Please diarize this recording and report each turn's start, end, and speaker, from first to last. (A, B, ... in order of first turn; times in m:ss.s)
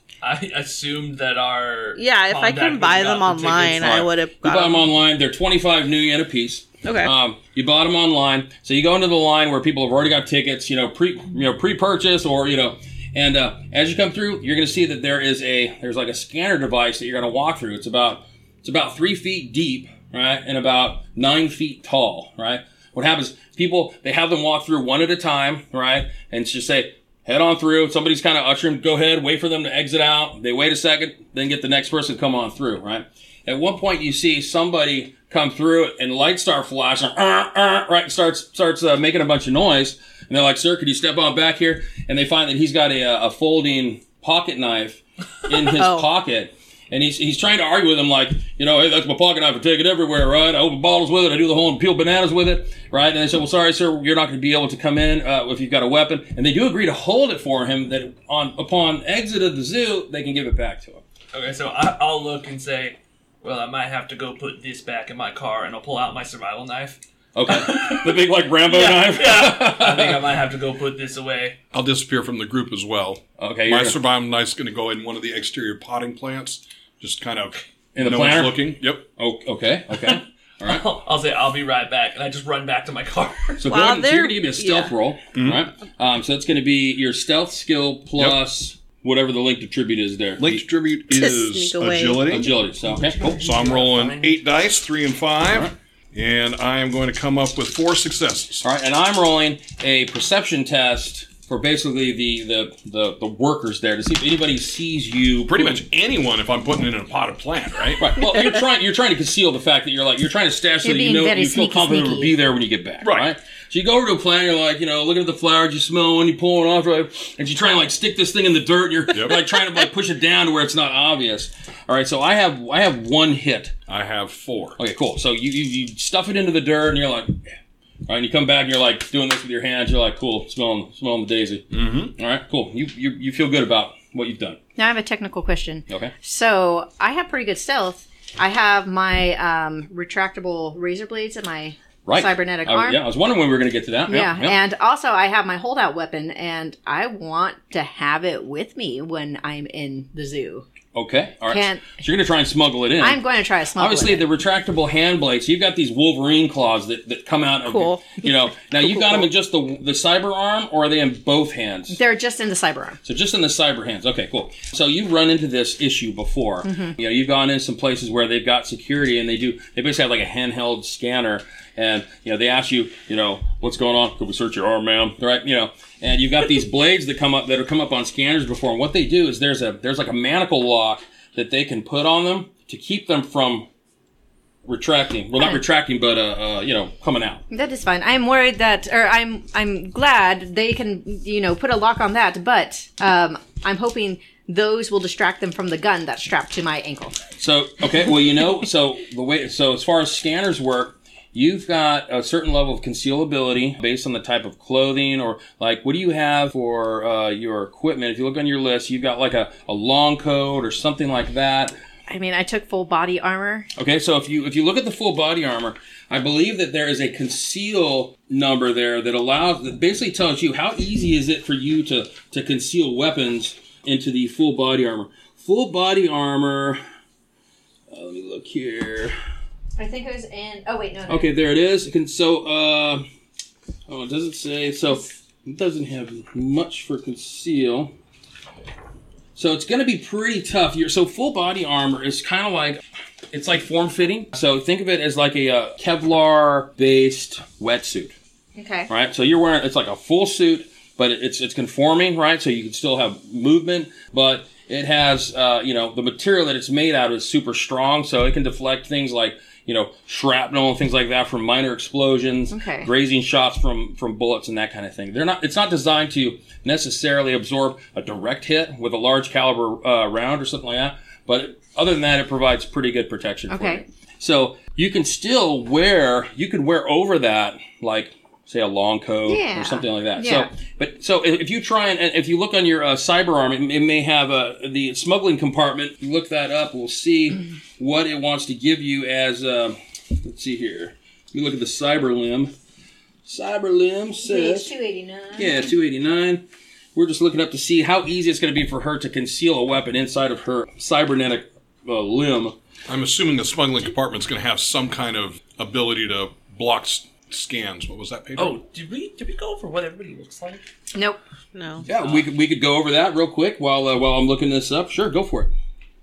0:00.2-0:04.1 A
0:02.0-0:04.8 B
0:03.8-1:01.0 C
0:06.8-0:07.1 B
0:45.8-0:46.1 B
1:01.3-1:11.6 A
1:07.4-1:10.2 C
1:11.7-1:19.0 D
1:13.4-1:14.0 C
1:18.0-1:20.8 C
1:20.0-1:23.6 A
1:23.6-1:30.6 C
1:23.7-1:24.9 B
1:25.4-1:25.6 D
1:28.2-1:28.4 D
1:30.4-1:32.5 D
1:31.1-1:32.4 B
1:32.3-1:33.2 C
1:32.8-1:34.4 A
1:33.2-1:38.6 D
1:38.6-1:45.8 C
1:45.5-1:48.2 D
1:48.0-2:03.7 C
1:50.8-1:52.4 E
1:53.0-1:53.3 D
1:59.1-1:59.4 D
2:03.9-2:04.8 D
2:04.8-2:07.5 C
2:08.1-2:14.6 C
2:11.7-2:12.1 D
2:14.8-2:23.0 E
2:22.1-2:24.6 C
2:24.1-2:30.7 E
2:30.9-2:33.2 C
2:31.5-2:32.0 E
2:33.0-2:34.3 E
2:33.8-2:42.0 C
2:37.6-2:38.2 B
2:41.9-2:43.0 E
2:43.0-3:03.7 C
2:46.6-2:47.0 E
3:04.7-3:07.4 C
3:07.5-3:17.2 E
3:17.4-3:31.8 C
3:32.1-3:33.7 E
3:33.8-3:46.8 C
3:47.9-3:49.2 C
3:49.8-3:51.3 E
3:51.1-3:53.1 C
3:53.9-3:57.9 C
3:59.4-4:08.2 C
4:08.6-4:08.9 E
4:08.9-4:52.5 C
4:22.5-4:22.9 E
4:33.5-4:33.8 E
4:39.3-4:40.5 E
4:53.2-4:54.7 C
4:54.2-4:55.7 E
4:55.4-4:56.4 C
4:57.0-5:02.6 C
5:02.9-5:08.6 D
5:08.4-5:10.6 A
5:10.9-5:11.2 E
5:11.5-5:11.9 B
5:11.8-5:15.5 C
5:11.9-5:12.2 A